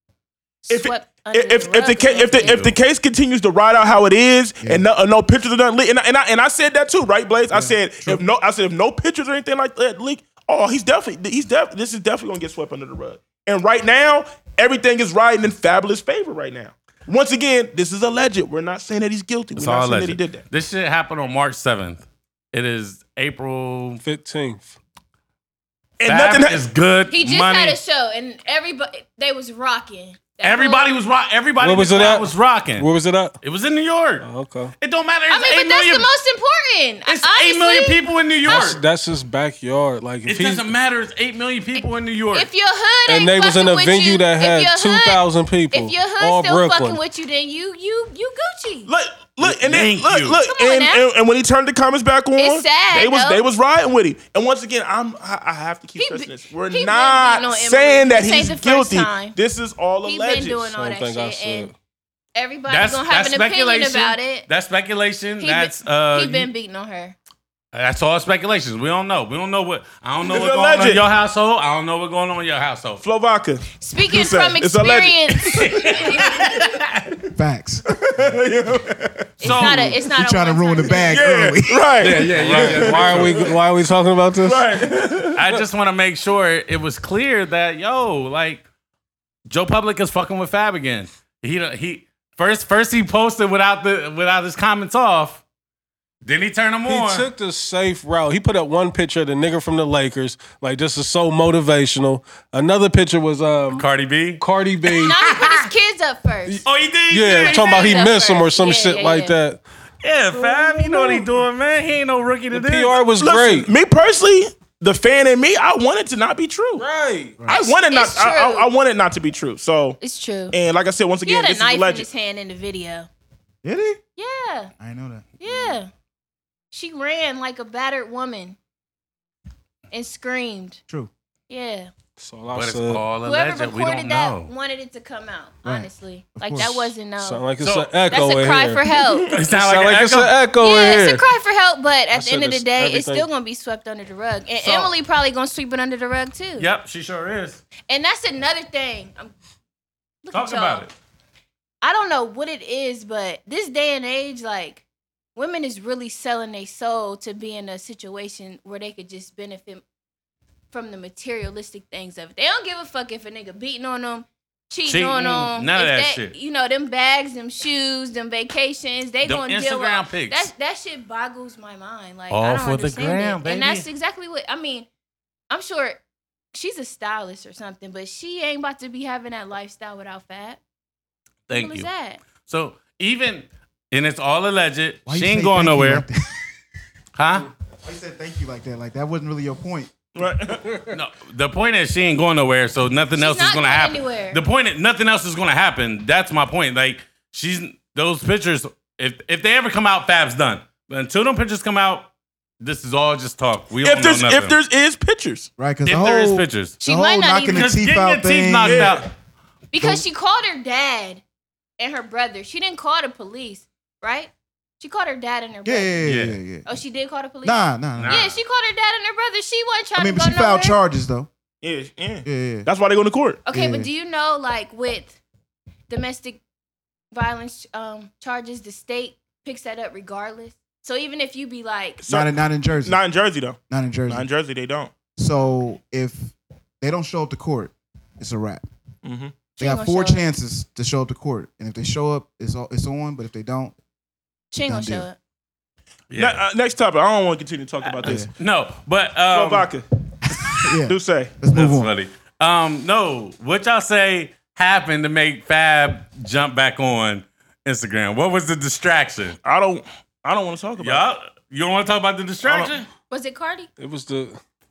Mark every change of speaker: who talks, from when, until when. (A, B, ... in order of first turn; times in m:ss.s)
0:00.6-0:02.7 A
0:00.7-0:20.4 B
0:02.4-0:02.7 C
0:07.5-0:08.2 D
0:19.6-0:24.0 C
0:24.0-0:24.8 E
0:26.0-0:26.6 B
0:26.0-0:27.8 C
0:27.1-0:31.0 A
0:30.4-0:32.9 C
0:31.6-0:33.4 E
0:33.4-0:34.2 C
0:34.2-0:34.7 E
0:34.8-0:36.1 C
0:35.3-0:38.8 A
0:37.1-0:38.8 C
0:38.4-0:40.7 E
0:40.2-0:42.5 C
0:41.8-0:48.9 A
0:43.1-0:47.0 E
0:48.9-1:00.7 B
0:49.4-0:50.4 C
0:50.4-0:51.0 A
0:52.4-0:53.4 A
0:56.0-0:59.4 A
1:00.0-1:01.7 A
1:00.7-1:01.7 E
1:02.4-1:04.5 A
1:02.7-1:06.5 C
1:05.4-1:07.2 A
1:07.7-1:13.0 C
1:10.2-1:11.0 B
1:13.0-1:16.4 B
1:13.8-1:16.3 A
1:15.4-1:17.2 C
1:17.3-1:17.9 D
1:17.9-1:19.4 B
1:19.4-1:21.2 A
1:19.4-1:20.0 C
1:19.4-1:22.1 D
1:21.0-1:23.5 B
1:22.0-1:24.9 E
1:22.3-1:23.4 C
1:24.4-1:25.4 B
1:25.3-1:28.6 C
1:29.5-1:35.4 C
1:36.2-1:37.3 C
1:36.9-1:43.9 E
1:43.7-1:45.7 C
1:44.4-1:45.2 E
1:45.0-1:46.6 A
1:46.4-1:49.6 E
1:46.6-1:48.1 C
1:47.2-1:49.4 A
1:50.0-1:53.0 C
1:50.3-1:51.3 E
1:52.5-1:53.7 E
1:53.2-1:56.8 B
1:56.8-1:57.4 E
1:57.5-2:00.0 B
1:57.5-1:58.7 A
2:00.0-2:00.6 A
2:00.5-2:02.1 B
2:01.2-2:03.1 A
2:03.6-2:04.0 D
2:04.2-2:04.7 A
2:04.8-2:05.3 D
2:05.4-2:05.9 A
2:06.7-2:08.6 A
2:09.9-2:10.8 A
2:11.5-2:11.9 A
2:12.2-2:13.0 E
2:12.5-2:14.5 C
2:13.2-2:17.5 A
2:15.6-2:16.9 D
2:17.2-2:18.9 E
2:17.6-2:18.0 C
2:18.1-2:19.4 A
2:19.3-2:20.4 C
2:19.5-2:21.2 E
2:20.6-2:26.7 A
2:22.1-2:23.3 E
2:24.6-2:24.9 C
2:26.6-2:27.6 C
2:27.8-2:29.3 A
2:30.2-2:30.9 A
2:30.3-2:30.9 C
2:31.8-2:34.8 A
2:35.4-2:39.8 A
2:40.7-2:54.9 A
2:44.9-2:46.3 C
2:49.2-2:50.5 C
2:52.3-2:53.9 C
2:55.5-2:56.0 A
2:56.5-3:00.6 A
3:01.5-3:06.0 C
3:01.5-3:02.2 A
3:05.1-3:06.2 D
3:07.2-3:07.5 C
3:07.8-3:09.9 D
3:10.1-3:10.6 B
3:10.9-3:22.1 C
3:13.1-3:14.4 A
3:22.6-3:24.6 C
3:23.8-3:25.5 B
3:25.6-3:28.9 D
3:25.8-3:26.8 C
3:26.8-3:27.7 A
3:27.5-3:29.1 C
3:28.6-3:29.0 B
3:29.7-3:31.2 A
3:31.8-3:36.0 A
3:35.6-3:36.7 D
3:36.0-3:36.4 C
3:36.6-3:40.8 A
3:37.4-3:38.2 D
3:38.0-3:38.3 C
3:40.0-3:41.3 D
3:41.6-3:43.4 B
3:42.2-3:42.7 D
3:43.5-3:45.2 A
3:43.5-3:43.9 D
3:45.9-3:46.4 A
3:47.1-3:52.0 A
3:52.0-3:54.9 B
3:52.1-3:53.0 D
3:53.7-3:54.3 D
3:55.2-3:58.6 D
3:59.0-3:59.3 B
3:59.6-4:00.3 A
3:59.6-4:03.7 D
4:04.5-4:05.2 A
4:04.6-4:05.1 D
4:06.1-4:06.4 C
4:06.2-4:08.3 B
4:07.9-4:09.7 C
4:08.0-4:08.3 D
4:09.3-4:09.8 B
4:10.3-4:11.9 D
4:10.8-4:11.3 B
4:11.5-4:19.4 C
4:19.4-4:21.0 B
4:20.8-4:22.9 C
4:22.4-4:22.7 B
4:23.1-4:23.7 A
4:23.8-4:24.4 E